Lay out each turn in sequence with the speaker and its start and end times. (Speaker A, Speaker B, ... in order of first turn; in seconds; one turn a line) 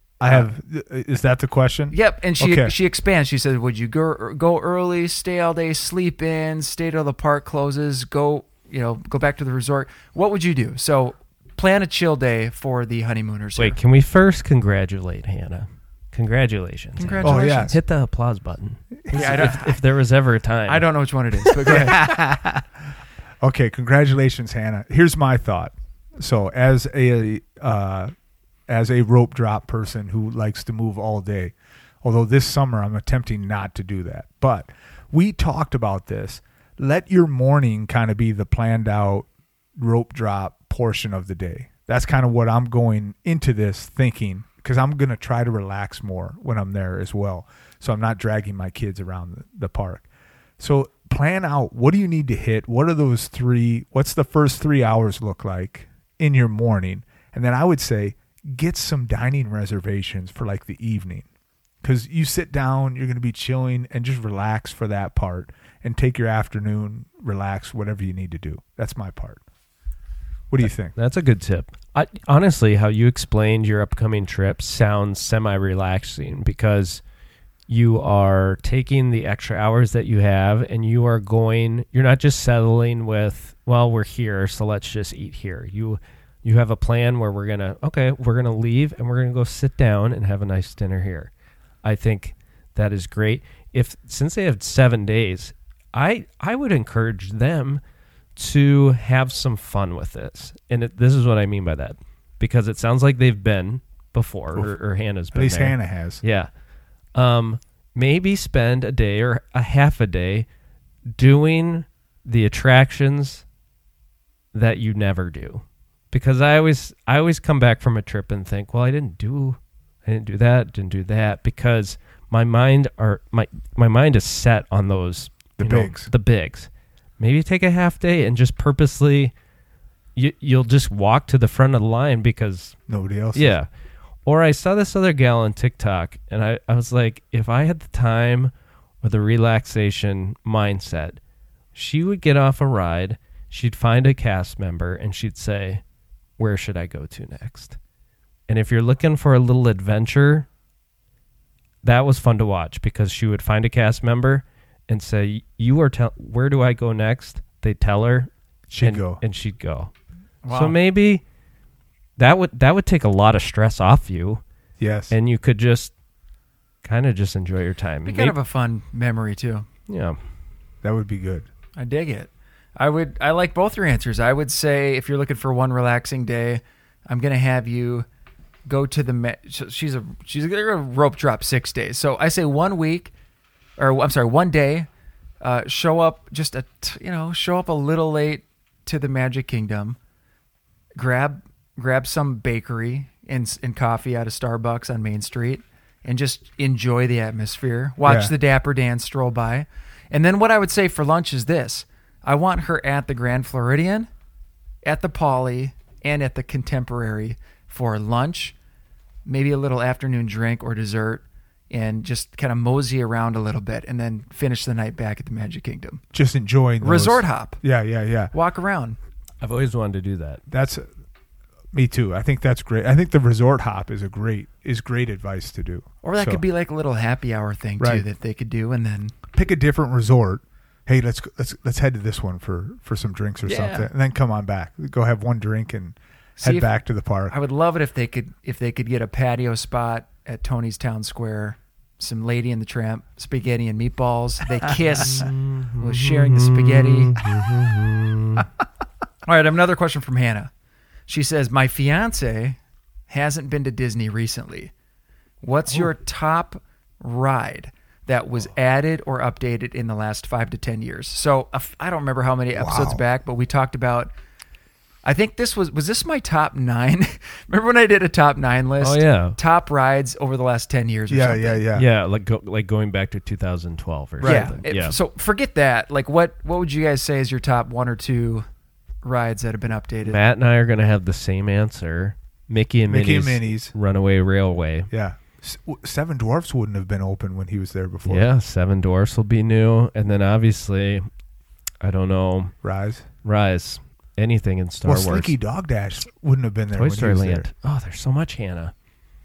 Speaker A: 0.2-2.7
Speaker B: 1.9-13.8
Speaker C: 13.6-20.9
Speaker B: 17.0-17.8
Speaker A: 17.2-17.8
Speaker A: 19.1-19.4
Speaker B: 19.1-19.8
Speaker B: 20.7-22.1
Speaker A: 21.7-22.7
Speaker A: 23.4-28.1
Speaker A: 28.7-50.1
Speaker A: 50.6-61.3
Speaker A: 61.8-69.4
Speaker A: 70.5-70.9
Speaker C: 70.9-77.0
Speaker C: 77.7-91.3
Speaker C: 91.8-97.8
Speaker C: 98.4-106.5
Speaker A: 105.3-106.2
Speaker C: 107.2-110.5
Speaker C: 111.2-113.5
Speaker C: 114.5-129.3
Speaker A: 125.6-126.1
Speaker C: 130.2-132.8
Speaker A: 132.9-133.6
Speaker C: 133.3-133.7
Speaker C: 134.2-141.2
Speaker C: 141.8-145.8
Speaker C: 146.4-147.8
Speaker C: 148.5-150.5
Speaker C: 151.8-158.3
Speaker A: 158.7-159.2
Speaker C: 158.8-159.9
Speaker B: 160.4-160.8
Speaker C: 160.5-161.2
Speaker C: 162.2-164.4
Speaker A: 164.8-165.1
Speaker C: 165.1-165.9
Speaker C: 166.8-168.3
Speaker B: 168.1-169.7
Speaker C: 169.9-170.2
Speaker A: 170.8-171.5
Speaker B: 171.8-178.1
Speaker B: 178.7-183.1
Speaker B: 183.8-184.9
Speaker B: 185.4-190.0
Speaker B: 191.0-204.1
Speaker A: 198.1-198.3
Speaker B: 204.8-208.6
Speaker B: 209.3-216.0
Speaker A: 216.1-218.3
Speaker B: 216.8-217.6
Speaker B: 218.3-219.0
Speaker C: 219.4-220.4
Speaker A: 220.5-220.9
Speaker A: 221.7-226.4
Speaker B: 226.0-229.2
Speaker A: 227.8-228.0
Speaker A: 229.3-237.4
Speaker B: 233.5-233.9
Speaker B: 236.4-236.7
Speaker B: 237.3-247.2
Speaker C: 245.0-248.5
Speaker B: 249.3-250.5
Speaker B: 251.1-252.6
Speaker B: 253.1-254.7
Speaker B: 255.4-264.1
Speaker A: 262.6-263.0
Speaker B: 265.0-271.6
Speaker C: 268.8-269.4
Speaker A: 271.1-271.9
Speaker C: 271.7-275.0
Speaker A: 274.2-274.6
Speaker B: 274.2-278.5
Speaker B: 279.0-280.2
Speaker C: 280.0-284.9
Speaker A: 282.9-283.7
Speaker A: 284.9-288.3
Speaker C: 288.1-291.1
Speaker C: 291.8-292.6
Speaker A: 292.6-293.1
Speaker C: 293.2-295.3
Speaker A: 294.8-297.5
Speaker C: 296.8-298.7